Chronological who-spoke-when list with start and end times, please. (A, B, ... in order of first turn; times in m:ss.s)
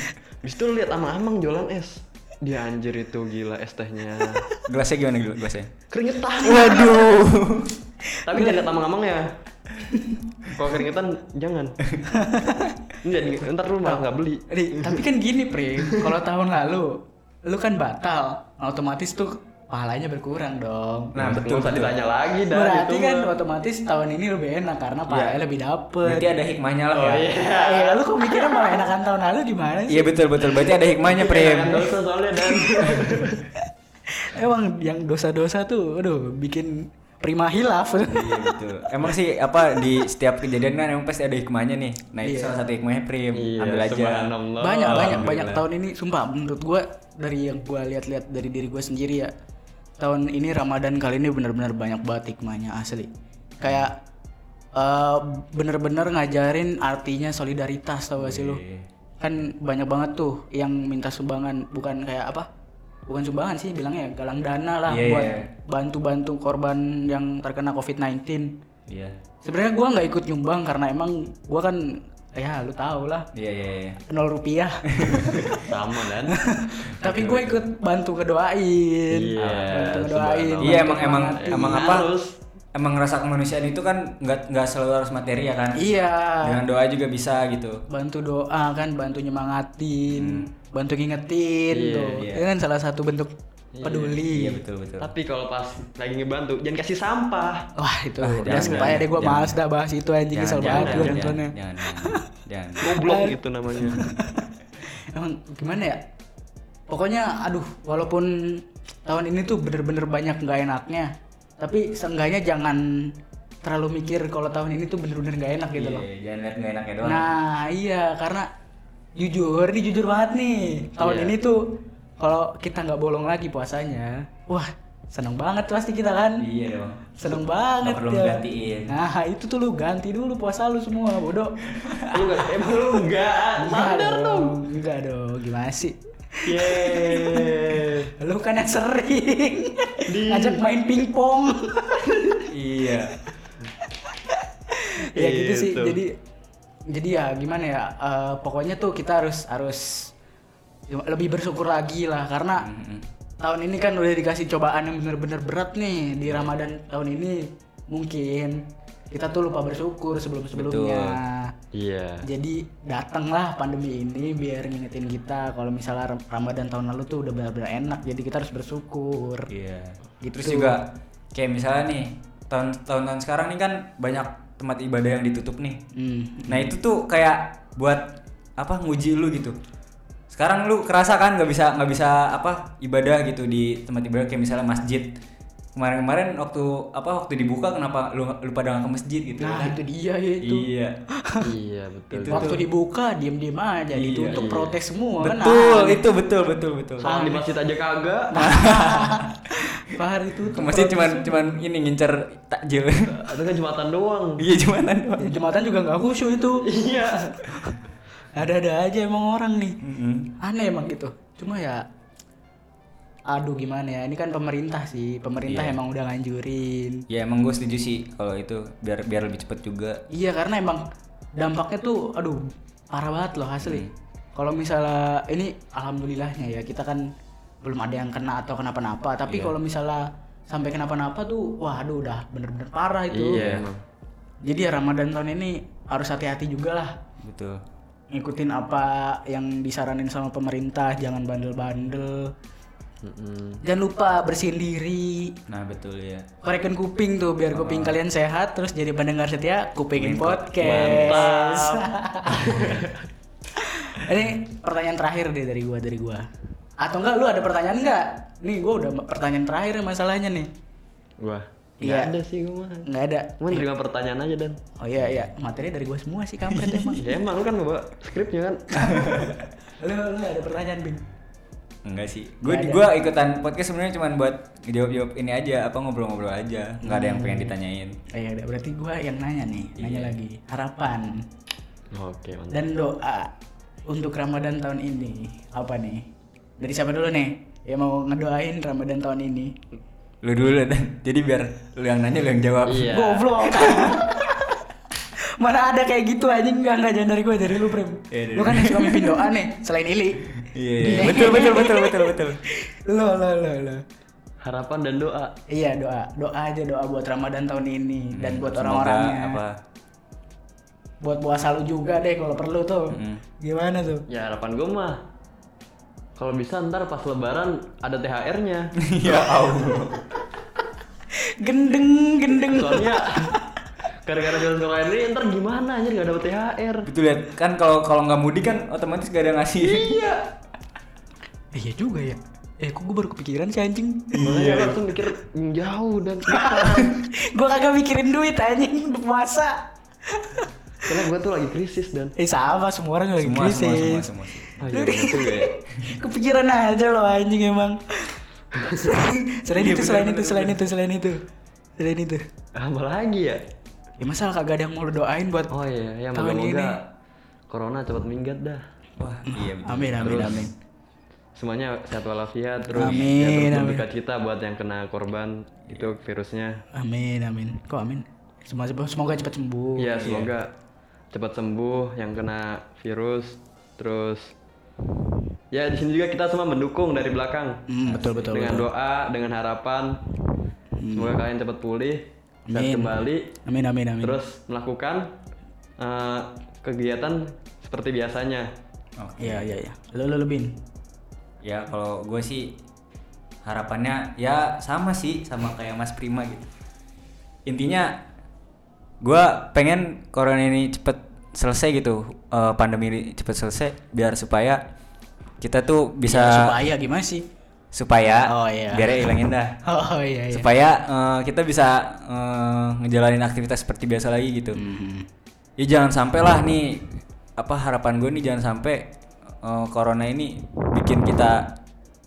0:00.4-0:04.4 A
0:04.6-0:05.7 B
0:05.9-0:07.1 A
0:06.4-0:07.8 B
0:08.2-0:08.6 C
0:08.2-0:09.3 A
0:09.9-0:10.2 C
0:10.5-0:11.8 A
0:12.1-0:12.8 C
0:13.0-0:15.0 A
0:13.8-0:16.9 C
0:15.8-0:16.1 A
0:17.4-0:21.2 C
0:21.1-0:21.9 B
0:21.2-0:23.3 A
0:22.5-0:26.3 C
0:25.1-0:25.4 B
0:26.0-0:27.3 B
0:26.9-0:28.0 A
0:27.5-0:30.1 C
0:29.9-0:31.8 B
0:30.6-0:33.4 A
0:32.4-0:33.4 C
0:34.2-0:38.5 C
0:38.0-0:44.3 B
0:42.2-0:42.6 C
0:43.3-0:45.6 A
0:44.6-0:49.3 C
0:44.9-0:45.4 B
0:50.0-0:53.1 C
0:53.6-0:54.0 C
0:54.8-0:58.6 C
0:58.2-0:58.8 B
0:59.2-1:02.5 C
1:03.1-1:08.5 C
1:04.9-1:05.5 B
1:08.9-1:09.2 B
1:09.4-1:11.8 C
1:12.3-1:13.3 C
1:13.3-1:14.0 B
1:14.1-1:15.6 C
1:15.0-1:15.5 B
1:15.5-1:16.4 A
1:16.3-1:22.0 C
1:17.0-1:17.6 B
1:19.1-1:22.3 A
1:19.4-1:19.9 B
1:20.6-1:22.1 B
1:22.7-1:25.8 B
1:25.7-1:26.6 C
1:26.4-1:27.8 B
1:27.9-1:33.3 C
1:30.1-1:30.5 B
1:31.7-1:32.2 A
1:32.1-1:32.4 B
1:33.7-1:34.2 A
1:33.8-1:34.6 C
1:34.2-1:35.1 B
1:35.0-1:37.6 A
1:37.8-1:42.2 C
1:38.2-1:39.6 B
1:38.4-1:39.1 A
1:40.3-1:42.9 B
1:40.6-1:41.3 A
1:42.8-1:44.0 A
1:42.8-1:44.5 C
1:45.1-1:46.0 C
1:46.9-1:51.1 C
1:51.6-1:52.8 C
1:53.6-1:56.0 C
1:55.7-1:57.3 B
1:57.0-1:58.5 C
1:59.2-2:01.6 C
2:01.0-2:01.4 A
2:02.2-2:06.4 C
2:06.4-2:07.2 B
2:07.1-2:12.2 C
2:07.8-2:08.9 B
2:12.1-2:14.6 A
2:13.6-2:17.6 C
2:16.4-2:18.1 A
2:18.1-2:22.5 C
2:20.1-2:20.7 A
2:22.5-2:23.2 B
2:24.0-2:26.1 C
2:25.2-2:26.0 A
2:26.9-2:30.1 C
2:30.9-2:32.7 C
2:32.6-2:33.0 B
2:33.4-2:38.6 C
2:39.1-2:41.5 C
2:40.5-2:41.2 B
2:41.7-2:42.2 A
2:42.2-2:49.5 C
2:49.5-2:55.8 B
2:50.2-2:50.8 C
2:55.9-2:56.7 C
2:56.5-2:59.6 B
3:00.3-3:05.1 B
3:05.8-3:09.8 B
3:09.4-3:10.7 C
3:10.4-3:10.9 B
3:11.4-3:12.5 A
3:12.2-3:12.6 B
3:12.2-3:16.0 C
3:13.9-3:14.4 B
3:14.3-3:14.8 A
3:15.2-3:17.1 B
3:17.0-3:18.5 A
3:17.0-3:17.4 C
3:18.3-3:21.5 C
3:18.4-3:19.2 B
3:20.5-3:23.4 B
3:23.1-3:24.4 A
3:24.4-3:25.3 B
3:25.2-3:26.7 C
3:26.6-3:27.4 A
3:27.3-3:27.8 C
3:28.3-3:29.8 C
3:29.8-3:30.3 B
3:30.4-3:31.8 C
3:33.3-3:37.0 C
3:35.5-3:35.8 B
3:37.1-3:40.0 B
3:40.1-3:40.8 C
3:41.4-3:47.0 C
3:43.6-3:43.9 B
3:47.6-3:53.4 C
3:49.3-3:49.5 B
3:53.1-3:53.8 A
3:53.3-3:53.6 B
3:54.4-3:56.9 C
3:57.2-3:57.6 B
3:58.1-4:02.3 C
4:03.0-4:03.6 A
4:03.6-4:05.3 C
4:05.5-4:06.3 B
4:06.4-4:12.6 C
4:07.5-4:08.0 B
4:10.0-4:11.3 B
4:10.6-4:13.0 A
4:12.3-4:12.8 B
4:13.6-4:16.2 C
4:16.8-4:20.5 C
4:21.2-4:22.9 A
4:21.8-4:22.1 C
4:22.8-4:23.6 C
4:23.4-4:24.6 A
4:24.8-4:27.0 C
4:25.0-4:25.3 B
4:26.5-4:27.0 B
4:27.0-4:28.9 A
4:28.8-4:29.2 C
4:28.9-4:29.4 B
4:29.8-4:31.0 C
4:31.8-4:38.0 B
4:32.4-4:32.8 C
4:36.8-4:37.5 C
4:38.1-4:41.1 C
4:39.8-4:40.2 B
4:41.9-4:42.6 A
4:42.5-4:43.3 C
4:43.9-4:46.0 C
4:46.6-4:49.5 C
4:50.2-4:52.9 B
4:52.6-4:53.2 A
4:52.8-4:54.5 C
4:53.6-4:54.0 B
4:55.4-5:00.3 C
4:58.1-4:59.3 B
5:00.4-5:02.4 B
5:00.8-5:03.8 C
5:04.4-5:05.3 A
5:05.5-5:09.4 C
5:08.1-5:09.6 B
5:11.0-5:14.0 C
5:12.9-5:13.2 B
5:14.1-5:15.0 A
5:16.2-5:18.7 A
5:18.8-5:20.0 B
5:21.4-5:23.6 C
5:22.4-5:23.3 A
5:24.0-5:26.9 A
5:26.8-5:30.0 B
5:29.6-5:30.2 A
5:31.5-5:34.4 C
5:34.1-5:34.8 B
5:34.2-5:37.0 A
5:36.3-5:39.6 C
5:40.1-5:40.5 C
5:40.8-5:42.1 A
5:42.2-5:44.0 C
5:43.2-5:44.6 B
5:44.6-5:45.5 A
5:44.7-5:51.2 C
5:45.5-5:45.9 B
5:48.6-5:48.8 A
5:49.5-5:50.6 B
5:51.8-5:52.2 C
5:52.6-5:53.4 A
5:54.0-5:55.5 C
5:55.5-5:56.8 A
5:56.1-5:56.8 C
5:57.5-5:58.6 A
5:59.0-6:00.5 B
5:59.3-6:00.5 C
6:00.0-6:00.5 A
6:01.4-6:06.5 A
6:02.7-6:03.8 C
6:02.7-6:03.1 B
6:06.7-6:09.9 C
6:09.8-6:10.5 A
6:10.0-6:10.3 B
6:11.1-6:14.3 A
6:15.5-6:17.6 A
6:17.7-6:18.7 C
6:17.9-6:18.2 B
6:18.2-6:19.9 A
6:20.8-6:21.2 C
6:21.0-6:23.3 A
6:22.5-6:24.1 C
6:24.0-6:25.1 A
6:25.8-6:28.5 A
6:29.0-6:29.5 B
6:29.2-6:30.5 C
6:31.4-6:32.6 B
6:33.4-6:36.5 B
6:37.4-6:38.0 B
6:39.0-6:44.6 B
6:45.4-6:46.5 B
6:46.0-6:47.2 C
6:47.7-6:49.6 B
6:48.3-6:49.1 C
6:49.6-6:50.5 C
6:50.3-6:54.6 B
6:54.5-6:55.0 C
6:55.6-6:56.8 B
6:57.4-6:58.8 B
6:59.4-7:01.5 B